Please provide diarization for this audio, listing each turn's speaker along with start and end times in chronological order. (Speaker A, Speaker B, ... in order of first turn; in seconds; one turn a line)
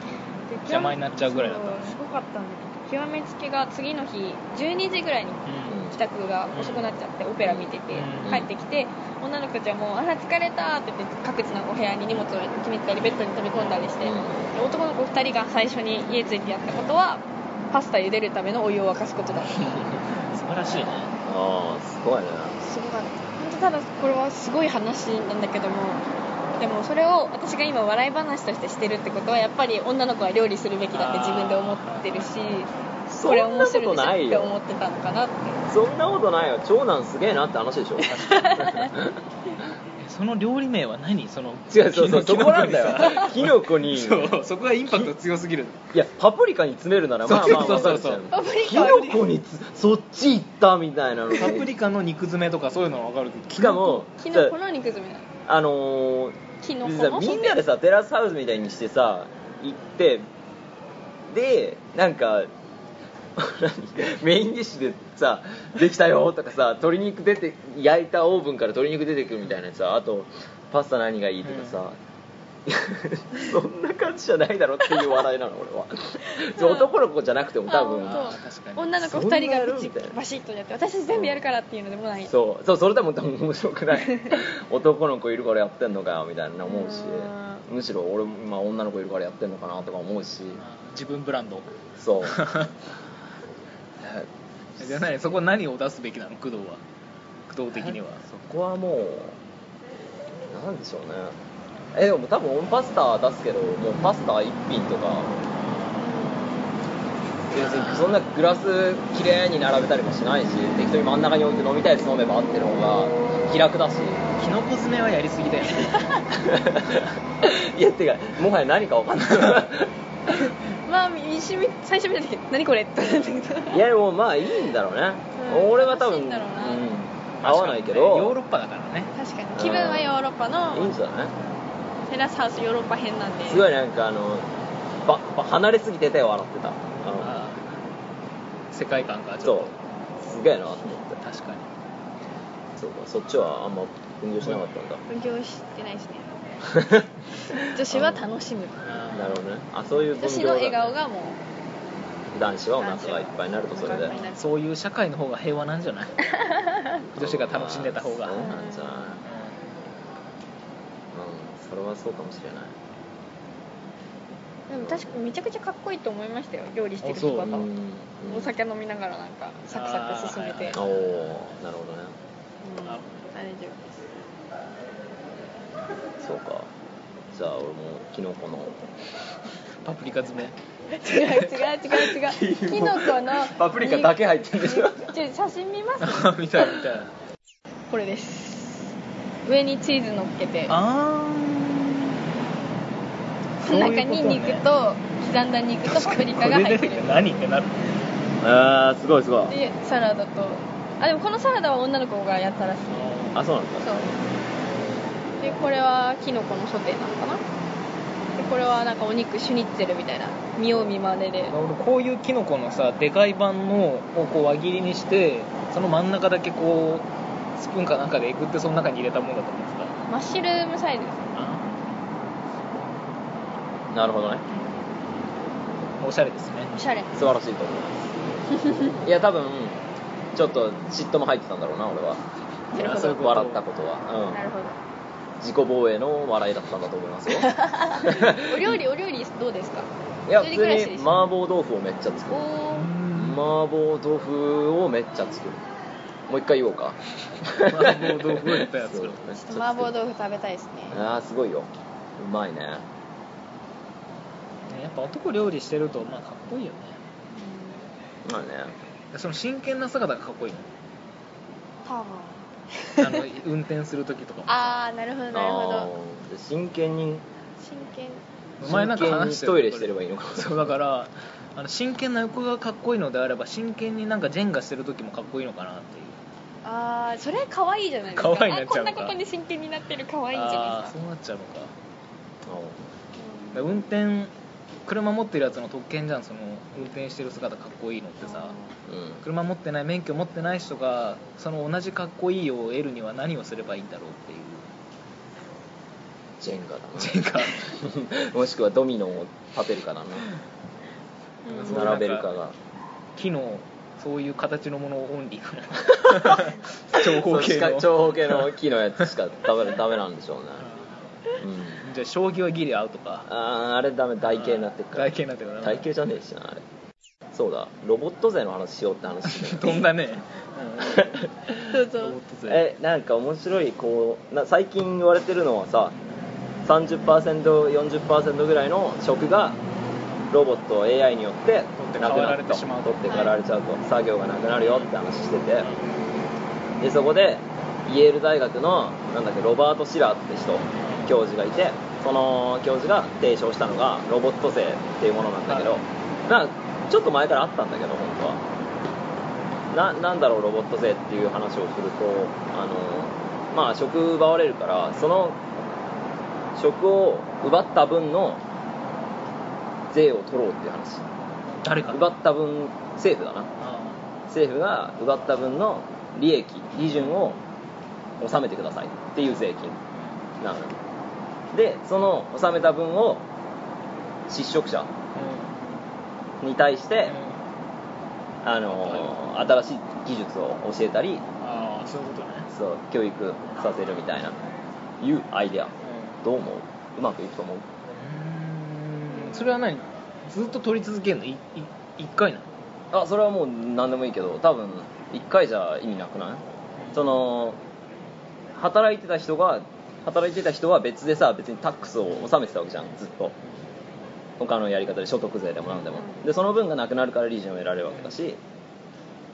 Speaker A: 0.5-19.8
Speaker B: 0.7-2.0
Speaker B: 5.5-5.8
Speaker C: 5.7-5.9
Speaker B: 6.5-6.9
Speaker C: 7.4-7.7
Speaker B: 7.9-8.4
Speaker B: 13.5-13.8
Speaker C: 14.0-14.5
Speaker B: 19.6-21.1
Speaker C: 21.2-22.6
Speaker A: 22.6-35.6
Speaker B: 30.9-32.3
Speaker C: 33.1-34.5
Speaker C: 35.7-38.1
Speaker A: 38.0-38.9
Speaker B: 38.1-38.9
Speaker C: 38.9-39.2
Speaker B: 40.0-45.8
Speaker C: 41.7-44.3
Speaker C: 45.9-51.7
Speaker B: 47.2-48.2
Speaker A: 48.3-49.2
Speaker B: 51.3-53.9
Speaker C: 53.5-54.5
Speaker A: 53.6-55.3
Speaker C: 55.5-60.2
Speaker A: 56.6-57.6
Speaker C: 61.3-62.5
Speaker C: 63.4-72.0
Speaker B: 71.4-71.8
Speaker C: 72.7-78.4
Speaker A: 76.5-76.9
Speaker A: 77.7-82.3
Speaker B: 78.0-79.0
Speaker C: 79.0-80.2
Speaker C: 81.1-81.4
Speaker C: 82.2-90.6
Speaker A: 83.9-84.4
Speaker A: 86.6-87.6
Speaker B: 90.6-91.7
Speaker C: 92.0-92.4
Speaker B: 92.2-92.7
Speaker C: 94.0-95.1
Speaker B: 94.8-96.8
Speaker B: 97.5-98.2
Speaker C: 97.7-99.4
Speaker C: 100.5-101.3
Speaker C: 101.9-105.3
Speaker A: 106.0-106.6
Speaker C: 107.5-114.2
Speaker B: 107.5-108.1
Speaker B: 114.3-116.2
Speaker C: 116.3-119.9
Speaker A: 120.3-123.8
Speaker C: 123.7-128.4
Speaker A: 125.3-126.8
Speaker B: 127.4-129.1
Speaker A: 129.1-130.9
Speaker C: 129.5-130.2
Speaker C: 130.7-131.3
Speaker A: 132.1-133.7
Speaker C: 133.4-134.5
Speaker C: 135.0-137.4
Speaker B: 137.2-137.6
Speaker B: 138.7-139.8
Speaker C: 139.4-141.2
Speaker B: 141.2-141.7
Speaker C: 142.8-145.0
Speaker A: 145.1-146.3
Speaker C: 146.6-148.2
Speaker A: 147.6-148.8
Speaker B: 148.8-149.4
Speaker C: 149.1-150.8
Speaker A: 150.2-151.4
Speaker C: 152.3-154.1
Speaker A: 152.8-154.4
Speaker B: 154.0-156.2
Speaker A: 156.4-157.0
Speaker C: 157.1-159.2
Speaker B: 157.1-158.5
Speaker A: 158.3-159.2
Speaker B: 159.2-159.5
Speaker C: 161.1-162.7
Speaker A: 164.7-167.7
Speaker C: 164.8-165.1
Speaker B: 167.0-167.5
Speaker C: 167.4-168.5
Speaker A: 168.2-170.8
Speaker B: 169.7-171.3
Speaker C: 170.7-172.1
Speaker A: 172.6-173.8
Speaker B: 172.8-173.1
Speaker C: 176.2-176.7
Speaker C: 177.3-178.8
Speaker B: 179.8-180.5
Speaker A: 180.9-186.7
Speaker C: 181.2-185.1
Speaker B: 186.0-187.1
Speaker A: 187.9-188.9
Speaker A: 189.4-190.8
Speaker B: 190.7-192.2
Speaker B: 193.6-194.7
Speaker A: 193.6-197.2
Speaker B: 195.8-197.8
Speaker C: 198.4-199.5
Speaker A: 199.5-203.2
Speaker B: 202.9-203.4
Speaker C: 203.3-204.0
Speaker A: 203.8-204.1
Speaker A: 205.4-207.4
Speaker A: 208.3-211.5
Speaker B: 211.4-220.0
Speaker A: 220.1-221.4
Speaker B: 221.3-221.7
Speaker C: 223.9-224.4
Speaker B: 226.0-226.7
Speaker A: 226.7-227.1
Speaker C: 227.1-228.1
Speaker C: 229.0-229.8
Speaker C: 230.3-232.2
Speaker A: 232.7-233.1
Speaker C: 232.7-234.4
Speaker B: 232.8-233.6
Speaker A: 234.3-234.8
Speaker C: 235.4-238.6
Speaker A: 237.3-241.2
Speaker C: 240.3-242.5
Speaker A: 242.3-242.9
Speaker B: 242.7-243.4
Speaker C: 243.1-245.6
Speaker C: 246.3-249.9
Speaker B: 247.6-249.2
Speaker A: 249.4-251.0
Speaker C: 250.9-252.8
Speaker B: 254.7-257.0
Speaker A: 257.3-257.9
Speaker C: 258.2-258.7
Speaker B: 259.1-260.7
Speaker A: 261.8-263.2
Speaker B: 263.0-264.7
Speaker A: 264.5-265.9
Speaker C: 265.3-267.2
Speaker A: 267.6-268.2
Speaker B: 268.6-276.2
Speaker C: 268.6-270.7
Speaker A: 276.6-280.9
Speaker B: 278.1-279.1
Speaker B: 280.3-281.7
Speaker C: 282.4-282.9
Speaker A: 283.2-283.6
Speaker B: 283.5-284.3
Speaker B: 284.9-288.5
Speaker A: 288.2-288.7
Speaker C: 288.9-289.2
Speaker B: 289.2-294.6
Speaker C: 296.4-300.3
Speaker B: 297.0-297.6
Speaker A: 301.4-301.8
Speaker B: 301.5-302.3
Speaker C: 301.6-302.6
Speaker B: 303.1-308.5
Speaker C: 305.9-310.6
Speaker C: 311.4-311.9
Speaker B: 311.8-313.3
Speaker C: 313.3-316.6
Speaker B: 314.2-315.9
Speaker C: 317.3-319.9
Speaker B: 319.3-322.6
Speaker C: 320.8-321.5
Speaker A: 321.6-322.1
Speaker C: 322.5-325.9
Speaker C: 326.6-329.6
Speaker C: 330.3-335.7
Speaker B: 331.8-333.0
Speaker B: 334.6-334.9
Speaker C: 336.8-348.4
Speaker B: 340.8-341.1
Speaker B: 345.5-345.7
Speaker C: 349.7-355.4
Speaker C: 356.5-358.4
Speaker C: 359.9-361.1
Speaker B: 361.6-362.1
Speaker C: 361.9-363.5
Speaker B: 363.6-364.0
Speaker C: 364.3-367.4
Speaker C: 368.2-369.8
Speaker C: 370.4-370.8
Speaker C: 371.5-373.2
Speaker C: 374.3-374.9
Speaker B: 375.1-375.6
Speaker C: 376.4-377.1
Speaker B: 377.1-377.4
Speaker C: 378.4-381.2
Speaker B: 378.8-379.1
Speaker B: 381.4-382.5
Speaker C: 382.5-384.4
Speaker C: 385.0-387.6
Speaker B: 385.8-386.2
Speaker B: 387.9-392.5
Speaker A: 389.1-389.6
Speaker C: 392.9-397.6
Speaker B: 396.8-397.1
Speaker C: 398.6-403.3
Speaker C: 404.4-408.4